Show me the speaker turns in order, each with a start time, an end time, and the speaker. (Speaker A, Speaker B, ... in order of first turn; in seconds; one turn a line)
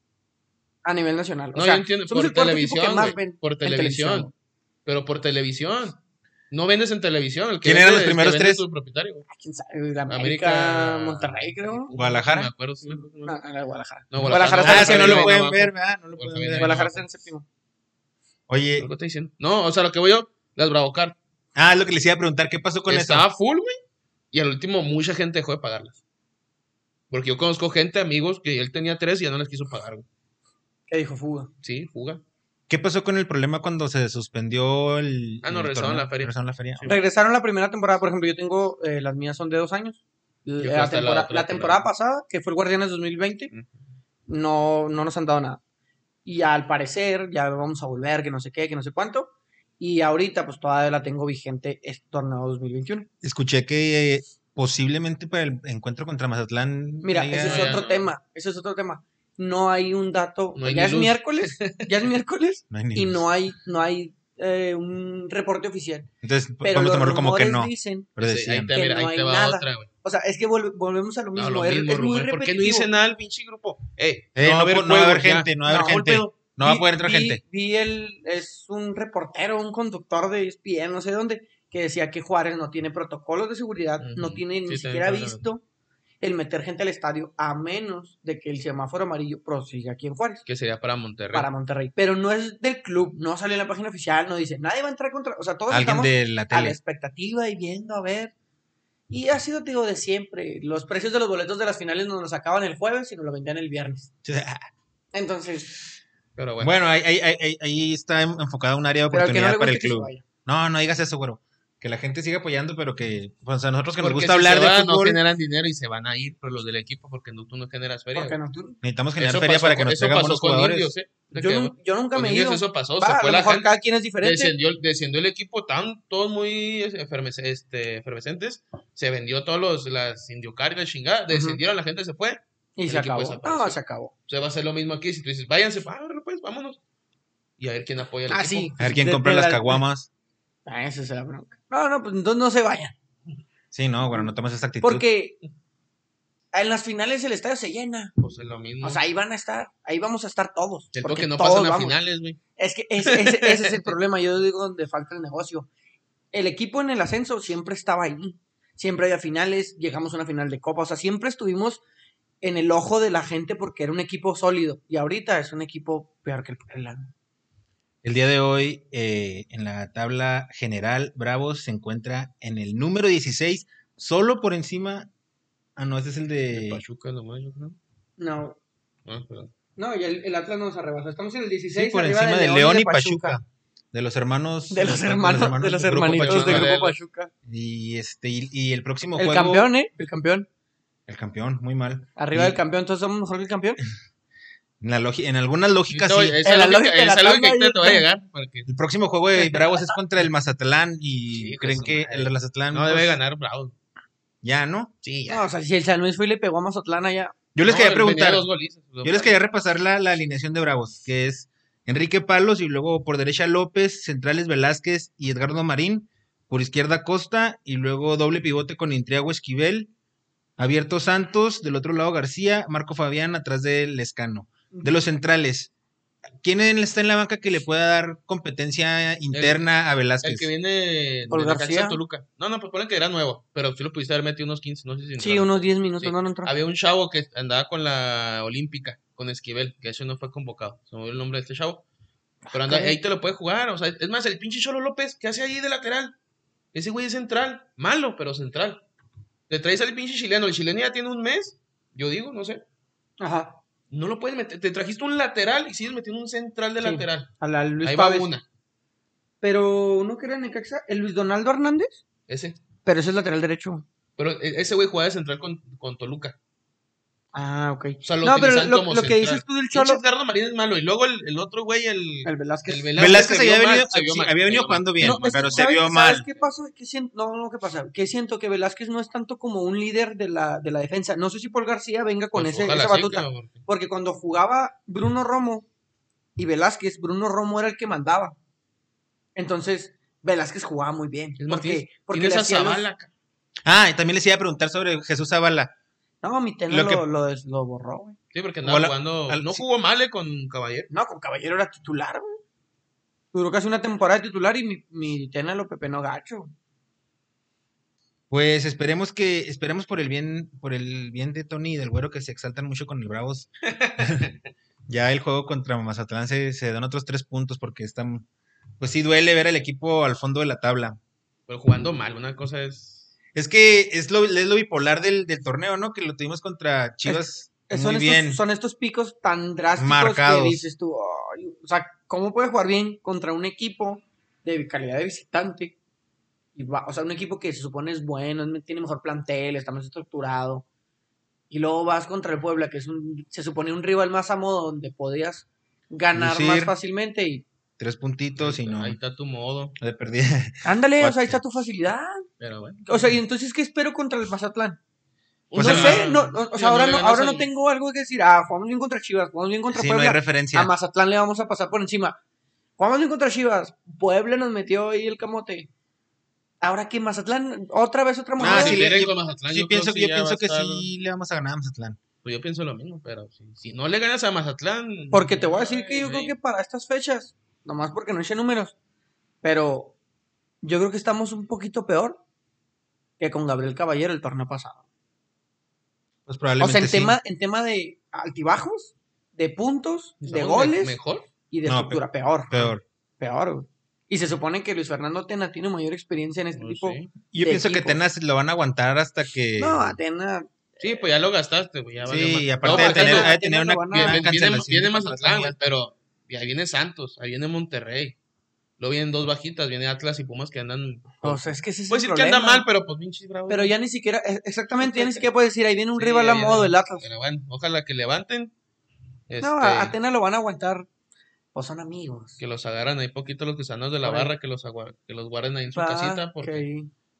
Speaker A: 0.8-4.3
Speaker B: 1.5-4.3
Speaker B: 4.8-6.0
Speaker B: 6.5-9.3
Speaker C: 7.6-8.6
Speaker A: 9.3-11.9
Speaker B: 10.1-13.3
Speaker C: 11.9-12.5
Speaker A: 12.9-15.3
Speaker B: 14.1-17.0
Speaker C: 14.2-16.8
Speaker A: 16.6-17.4
Speaker C: 18.5-18.9
Speaker B: 18.8-21.1
Speaker C: 21.6-23.2
Speaker B: 22.9-23.8
Speaker B: 24.3-26.0
Speaker B: 27.1-30.1
Speaker A: 30.9-31.5
Speaker B: 31.6-32.2
Speaker C: 32.7-36.9
Speaker B: 35.4-37.0
Speaker A: 36.8-43.5
Speaker B: 40.6-41.8
Speaker A: 44.3-45.6
Speaker A: 46.2-53.1
Speaker C: 53.2-57.8
Speaker A: 57.0-66.1
Speaker B: 57.3-58.1
Speaker B: 60.5-61.9
Speaker C: 62.7-63.2
Speaker C: 66.2-68.7
Speaker A: 66.6-68.1
Speaker B: 68.2-69.9
Speaker A: 68.7-72.9
Speaker B: 71.3-76.2
Speaker C: 74.3-77.4
Speaker A: 75.6-85.6
Speaker B: 84.0-85.4
Speaker A: 86.2-90.4
Speaker B: 90.5-91.5
Speaker A: 91.3-98.3
Speaker C: 95.7-96.8
Speaker A: 99.1-104.1
Speaker C: 104.2-104.6
Speaker A: 105.1-105.7
Speaker B: 106.3-106.7
Speaker C: 106.6-115.2
Speaker A: 109.1-110.2
Speaker B: 114.0-118.4
Speaker A: 118.1-118.8
Speaker C: 118.8-120.9
Speaker B: 119.2-136.8
Speaker A: 121.3-124.5
Speaker A: 131.3-131.6
Speaker A: 132.8-134.1
Speaker B: 137.6-138.7
Speaker A: 138.3-139.8
Speaker C: 138.8-140.1
Speaker A: 140.7-142.9
Speaker C: 143.7-145.0
Speaker A: 144.8-145.4
Speaker A: 146.5-148.1
Speaker B: 148.2-149.0
Speaker A: 148.8-151.9
Speaker B: 150.9-152.4
Speaker A: 152.6-155.7
Speaker B: 153.0-153.9
Speaker A: 156.3-161.8
Speaker A: 162.4-167.1
Speaker C: 168.0-175.1
Speaker C: 175.8-176.8
Speaker B: 176.5-177.8
Speaker A: 178.2-178.6
Speaker B: 179.1-179.5
Speaker A: 179.8-183.4
Speaker C: 181.7-186.7
Speaker A: 184.7-187.3
Speaker B: 186.1-186.9
Speaker C: 187.4-189.7
Speaker A: 189.2-190.5
Speaker C: 191.1-192.6
Speaker A: 192.2-193.8
Speaker C: 194.8-196.4
Speaker B: 195.9-198.7
Speaker A: 196.4-198.0
Speaker C: 198.7-203.2
Speaker B: 201.3-203.7
Speaker C: 204.4-204.9
Speaker B: 205.0-205.4
Speaker A: 205.3-207.3
Speaker C: 207.5-208.5
Speaker B: 207.6-209.3
Speaker C: 209.0-219.9
Speaker C: 220.6-225.7
Speaker C: 226.4-230.5
Speaker B: 229.3-229.6
Speaker B: 230.2-241.8
Speaker A: 231.3-232.0
Speaker A: 235.2-236.5
Speaker A: 242.5-243.0
Speaker B: 242.5-246.1
Speaker B: 246.7-248.8
Speaker B: 249.5-252.6
Speaker A: 253.2-253.6
Speaker B: 253.9-257.3
Speaker A: 256.8-258.3
Speaker B: 257.8-258.4
Speaker A: 259.4-262.0
Speaker B: 262.3-262.6
Speaker A: 262.8-263.8
Speaker B: 264.2-266.4
Speaker A: 267.3-270.0
Speaker B: 268.0-275.7
Speaker A: 272.2-273.2
Speaker C: 272.9-276.2
Speaker A: 275.0-285.6
Speaker B: 276.3-276.5
Speaker B: 282.3-283.6
Speaker A: 286.4-288.4
Speaker A: 289.3-292.8
Speaker B: 291.4-293.1
Speaker C: 293.6-295.7
Speaker A: 296.2-298.2
Speaker C: 296.7-297.0
Speaker B: 298.3-300.9
Speaker C: 298.6-299.6
Speaker A: 300.9-302.4
Speaker A: 303.3-306.5
Speaker C: 308.3-314.3
Speaker B: 313.7-314.3
Speaker C: 314.9-318.2
Speaker C: 318.8-321.0
Speaker B: 321.5-323.1
Speaker C: 323.3-328.4
Speaker A: 327.1-335.7
Speaker C: 329.8-330.6
Speaker A: 336.6-340.6
Speaker A: 341.5-347.4
Speaker C: 346.1-346.7
Speaker C: 347.8-349.0
Speaker B: 348.4-349.8
Speaker C: 349.8-351.4
Speaker A: 350.6-352.2
Speaker B: 352.4-353.1
Speaker A: 352.9-354.8
Speaker B: 355.5-357.5
Speaker A: 355.5-362.2
Speaker C: 355.6-356.1
Speaker C: 359.7-360.7
Speaker A: 362.8-365.7
Speaker A: 366.6-368.9
Speaker C: 368.4-372.0
Speaker B: 368.4-370.9
Speaker B: 372.2-376.3
Speaker A: 375.1-378.7
Speaker A: 379.4-379.9
Speaker A: 380.6-382.2
Speaker A: 383.2-384.8
Speaker C: 386.3-387.2
Speaker A: 386.6-391.0
Speaker B: 390.2-391.3
Speaker A: 391.5-392.5
Speaker C: 391.6-392.8
Speaker A: 393.2-398.0
Speaker B: 396.6-397.1
Speaker C: 397.3-400.0
Speaker A: 399.6-400.5
Speaker B: 400.8-403.3
Speaker C: 402.0-405.6
Speaker A: 402.6-404.3
Speaker B: 403.9-408.1
Speaker B: 408.8-413.7
Speaker A: 411.2-412.6
Speaker A: 413.5-417.0
Speaker B: 414.8-415.2
Speaker B: 415.9-418.5
Speaker B: 419.3-419.9
Speaker A: 419.4-420.9
Speaker A: 421.5-422.4
Speaker B: 422.4-426.6
Speaker A: 424.0-424.3
Speaker A: 425.7-426.9